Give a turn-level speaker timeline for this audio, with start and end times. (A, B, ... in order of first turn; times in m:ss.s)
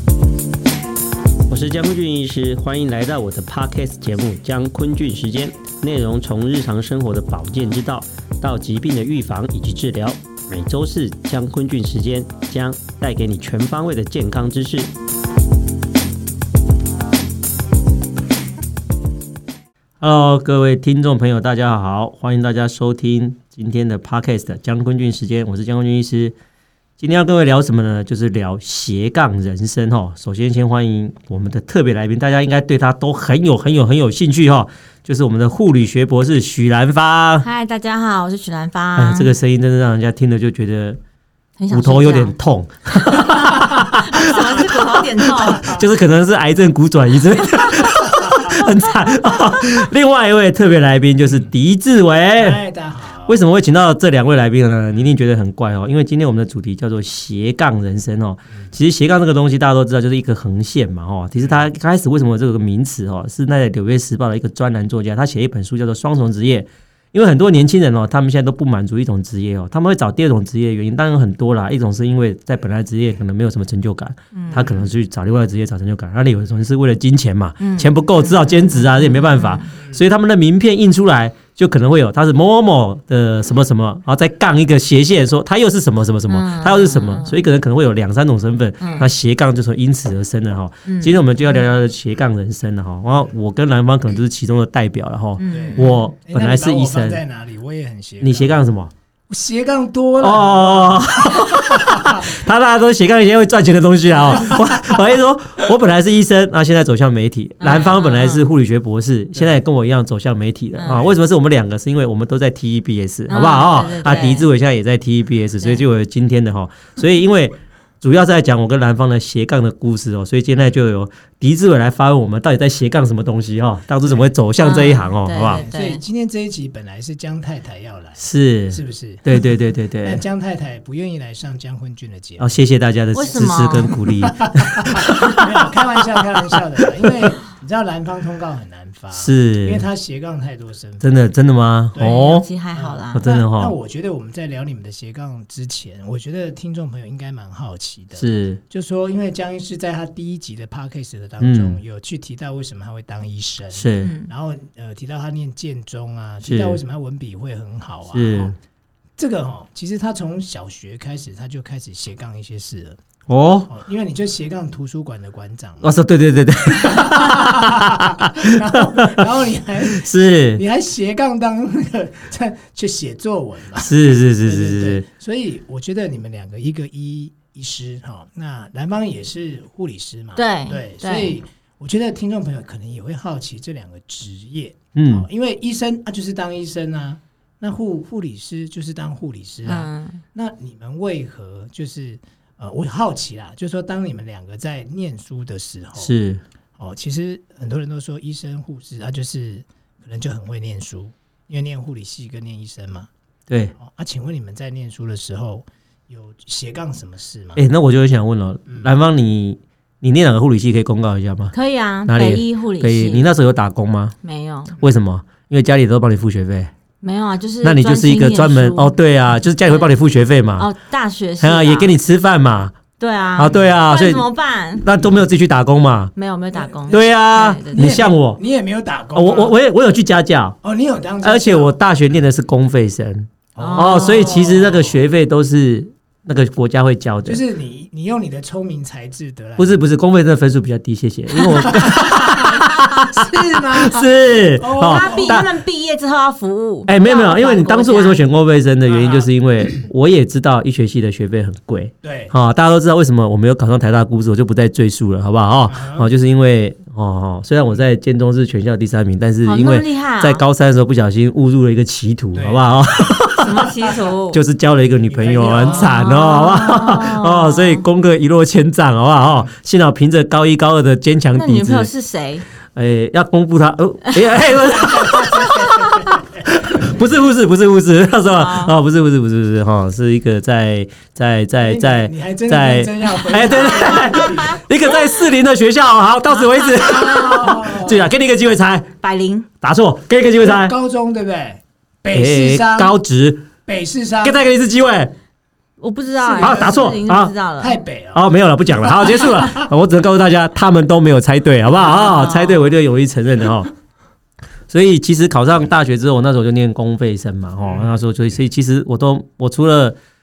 0:01.5-0:14.9 A
0:20.0-0:26.4 A
0:27.0-0:37.5 A
0:37.4-0:39.3 B
0:39.0-0:41.0 A
0:41.6-0:42.4 B
0:41.7-0:52.6 A
0:43.0-0:45.8 B
0:48.1-0:48.6 C
0:52.4-0:53.4 C
0:53.3-1:37.2 A
1:14.3-1:14.8 B
1:17.6-1:19.7 B
1:26.3-1:27.4 B
1:28.8-1:29.1 B
1:30.8-1:31.2 B
1:35.4-1:36.0 B
1:35.5-1:38.6 C
1:38.2-1:38.9 A
1:39.3-1:42.3 C
1:40.2-2:05.6 A
1:47.6-1:48.5 B
1:50.8-1:51.1 B
1:53.3-1:54.5 B
2:04.6-2:06.0 B
2:05.4-2:09.5 C
2:08.2-2:10.2 A
2:10.0-2:12.6 C
2:12.4-2:16.2 A
2:13.1-2:14.0 B
2:13.9-2:21.1 C
2:17.0-2:17.4 A
2:19.1-2:19.9 A
2:21.0-2:22.5 A
2:22.0-2:38.6 C
2:22.0-2:23.2 B
2:23.1-2:23.8 A
2:28.2-2:28.6 A
2:31.4-2:31.8 A
2:33.7-2:34.1 A
2:34.0-2:34.3 B
2:36.4-2:36.8 A
2:38.1-2:38.6 A
2:39.2-2:43.0 C
2:43.3-2:43.7 A
2:43.7-2:46.0 C
2:45.8-2:49.2 A
2:46.7-3:16.1 C
2:49.8-2:50.6 A
2:53.8-2:55.0 A
3:00.4-3:01.4 B
3:05.0-3:05.3 A
3:09.6-3:10.2 B
3:16.0-3:16.4 A
3:16.8-3:23.1 C
3:23.8-3:27.6 C
3:27.6-3:31.5 A
3:31.5-3:33.3 B
3:32.1-3:34.2 A
3:34.2-3:34.8 B
3:34.8-3:36.7 A
3:37.0-3:39.0 B
3:37.6-3:40.7 A
3:39.6-3:39.9 B
3:40.6-3:42.0 B
3:41.4-3:42.8 A
3:43.0-3:44.8 B
3:43.4-3:44.3 A
3:43.5-3:43.8 C
3:44.8-3:46.1 A
3:46.2-3:48.0 B
3:46.6-3:47.1 C
3:46.9-3:48.4 A
3:47.7-3:49.6 C
3:49.2-3:50.6 A
3:50.6-3:51.8 C
3:51.2-3:57.4 A
3:53.6-3:55.0 C
3:53.6-3:54.4 B
3:57.3-3:59.8 C
3:59.6-4:05.5 A
4:01.6-4:05.4 C
4:04.8-4:08.2 B
4:06.9-4:23.7 A
4:08.8-4:09.8 C
4:12.0-4:12.3 C
4:15.7-4:16.1 C
4:19.4-4:20.4 B
4:22.4-4:23.2 C
4:23.3-4:24.4 B
4:24.3-4:31.9 A
4:25.1-4:26.1 C
4:25.6-4:27.8 B
4:31.4-4:32.4 B
4:32.8-4:35.5 A
4:34.4-4:37.0 C
4:35.1-4:36.1 B
4:36.5-4:48.9 A
4:38.3-4:38.8 B
4:41.6-4:44.6 C
4:43.4-4:44.9 B
4:46.3-4:47.6 B
4:46.8-4:48.1 C
4:49.0-4:49.5 B
4:49.6-4:50.8 A
4:50.4-4:53.0 C
4:52.1-4:53.5 A
4:53.7-4:54.4 C
4:54.2-4:55.1 A
4:55.8-4:57.8 B
4:56.2-4:57.0 C
4:56.4-4:57.3 A
4:57.6-4:59.7 C
4:58.1-5:03.7 A
5:01.9-5:02.7 B
5:04.7-5:10.0 A
5:07.6-5:08.0 C